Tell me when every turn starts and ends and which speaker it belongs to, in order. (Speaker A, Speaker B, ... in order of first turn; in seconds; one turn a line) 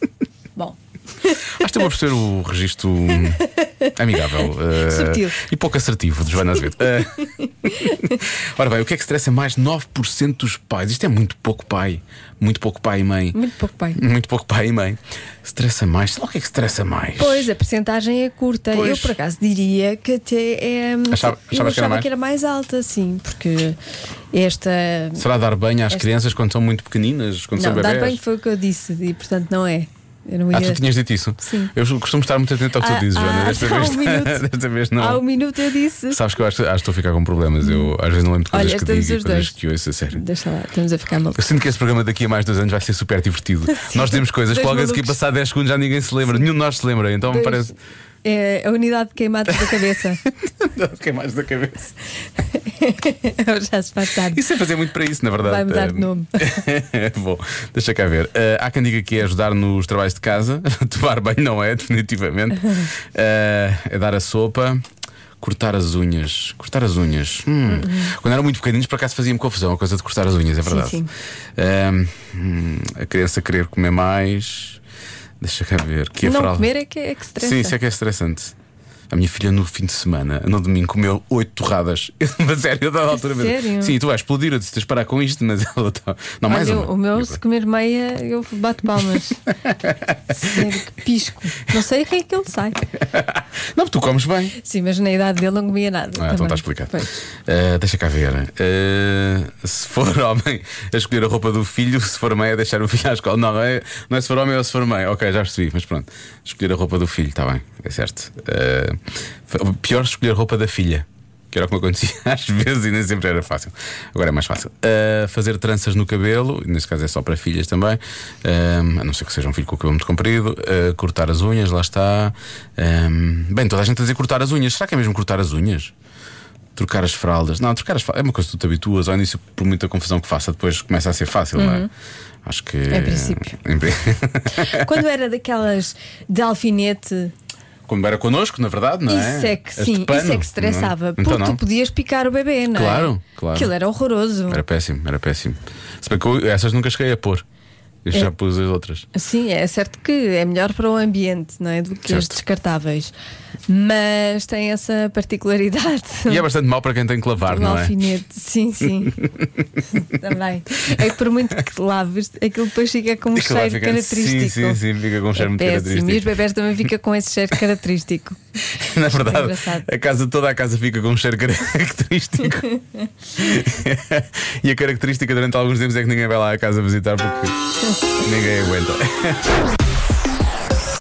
Speaker A: 0.6-1.4
Speaker B: 1.6-3.4
Speaker A: 3.4-3.9
Speaker B: 4.0-7.3
Speaker A: 4.8-5.4
Speaker A: 7.8-8.1
Speaker B: 8.6-13.4
Speaker A: 13.3-14.0
Speaker B: 13.9-17.5
Speaker A: 17.2-23.8
Speaker B: 18.7-19.1
Speaker B: 21.1-22.1
Speaker A: 24.3-25.2
Speaker B: 25.1-28.2
Speaker A: 27.5-30.8
Speaker B: 30.5-35.2
Speaker A: 31.4-31.7
Speaker A: 32.8-34.4
Speaker A: 35.0-36.2
Speaker B: 36.1-40.2
Speaker A: 37.6-37.9
Speaker A: 38.5-39.5
Speaker A: 40.1-41.4
Speaker B: 41.4-47.7
Speaker A: 43.7-45.2
Speaker A: 47.3-47.7
Speaker A: 48.2-50.2
Speaker B: 49.5-51.9
Speaker A: 52.4-54.4
Speaker B: 54.3-64.8
Speaker A: 55.4-56.5
Speaker B: 65.4-71.0
Speaker A: 67.7-68.1
Speaker A: 70.7-71.1
Speaker B: 71.6-74.8
Speaker B: 75.4-76.7
Speaker A: 76.2-77.7
Speaker B: 77.4-78.5
Speaker B: 79.1-87.4
Speaker A: 83.2-84.0
Speaker A: 86.5-89.4
Speaker B: 89.7-90.1
Speaker A: 90.4-92.8
Speaker B: 93.0-94.5
Speaker A: 94.6-97.1
Speaker B: 96.2-109.0
Speaker B: 109.5-125.9
Speaker B: 126.8-131.9
Speaker A: 131.5-131.9
Speaker B: 132.4-135.0
Speaker A: 132.9-133.5
Speaker A: 134.6-137.3
Speaker B: 137.9-141.6
Speaker A: 139.1-144.6
Speaker B: 142.7-143.7
Speaker B: 144.5-147.4
Speaker B: 148.0-149.1
Speaker A: 149.1-153.1
Speaker B: 152.1-152.3
Speaker A: 153.7-156.4
Speaker B: 156.2-157.9
Speaker A: 157.4-159.2
Speaker A: 160.0-164.8
Speaker B: 163.3-166.3
Speaker A: 165.3-168.4
Speaker B: 168.8-172.7
Speaker A: 169.1-169.8
Speaker B: 173.3-177.5
Speaker B: 178.2-179.5